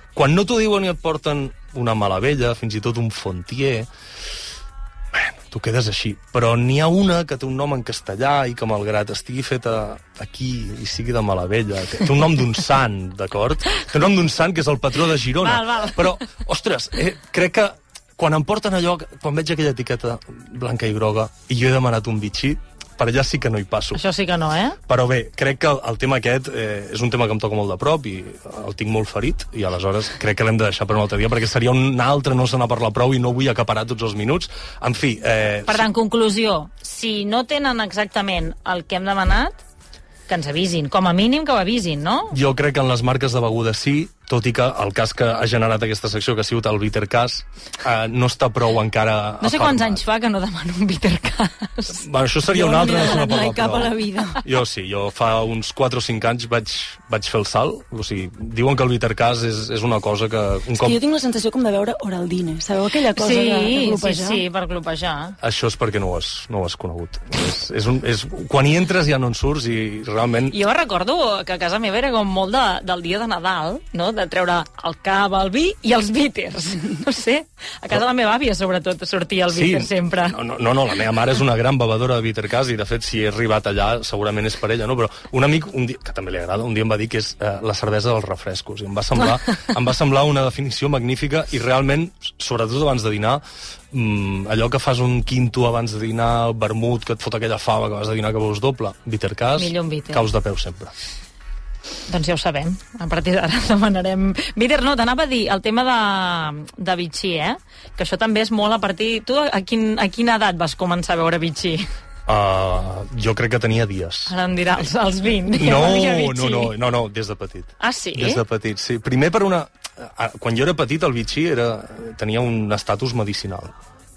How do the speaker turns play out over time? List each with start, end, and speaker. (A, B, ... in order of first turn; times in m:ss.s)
0:00.2-0:03.9 A
0:05.1-0:24.0 A
0:15.4-0:16.2 B
0:23.9-0:24.8 B
0:24.9-0:35.8 A
0:35.7-0:39.6 B
0:40.3-0:42.4 B
0:42.3-0:50.0 A
0:49.4-0:52.0 B
0:52.0-1:01.0 A
0:52.6-0:54.4 C
0:52.9-0:53.3 B
1:00.8-1:04.4 C
1:03.1-1:05.4 B
1:05.4-1:10.6 A
1:10.5-1:20.4 B
1:19.5-1:40.9 A
1:39.6-1:40.3 B
1:42.1-1:51.9 B
1:52.3-1:54.4 A
1:54.3-1:56.7 B
1:55.5-2:03.7 A
1:57.8-1:58.4 B